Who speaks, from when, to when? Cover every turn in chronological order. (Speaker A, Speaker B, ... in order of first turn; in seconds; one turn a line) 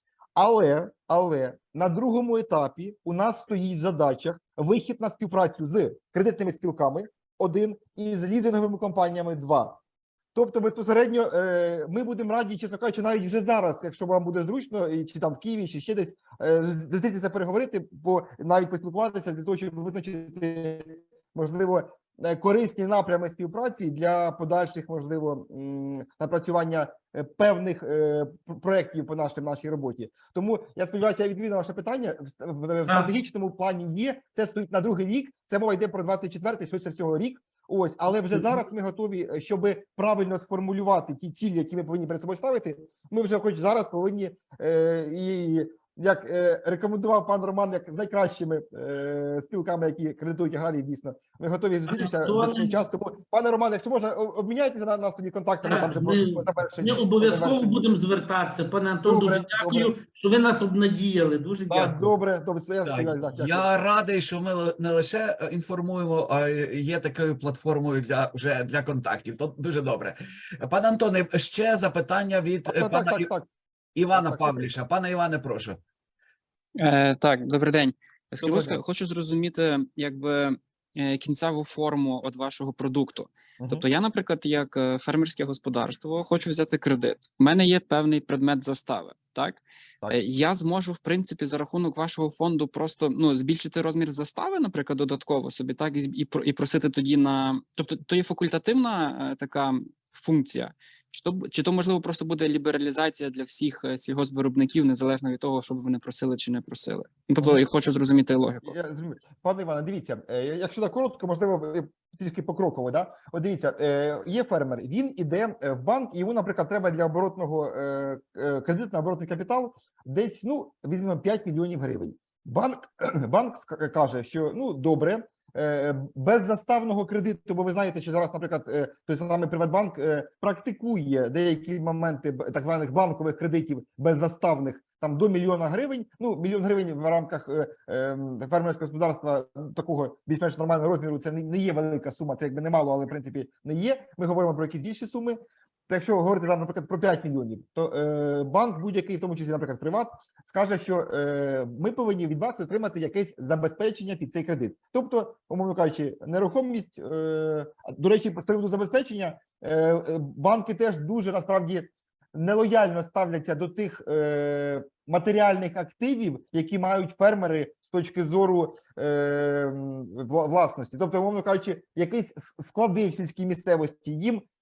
Speaker A: 0.3-9.8
Speaker A: 10.3-57.9
Speaker B: 51.9-52.8
Speaker B: 55.6-62.1
Speaker A: 59.0-59.9
Speaker A: 61.7-63.7
Speaker C: 62.8-73.3
Speaker A: 72.7-73.5
Speaker C: 73.9-75.8
Speaker A: 74.1-74.7
Speaker D: 76.8-108.8
Speaker A: 78.4-78.8
Speaker A: 108.6-174.4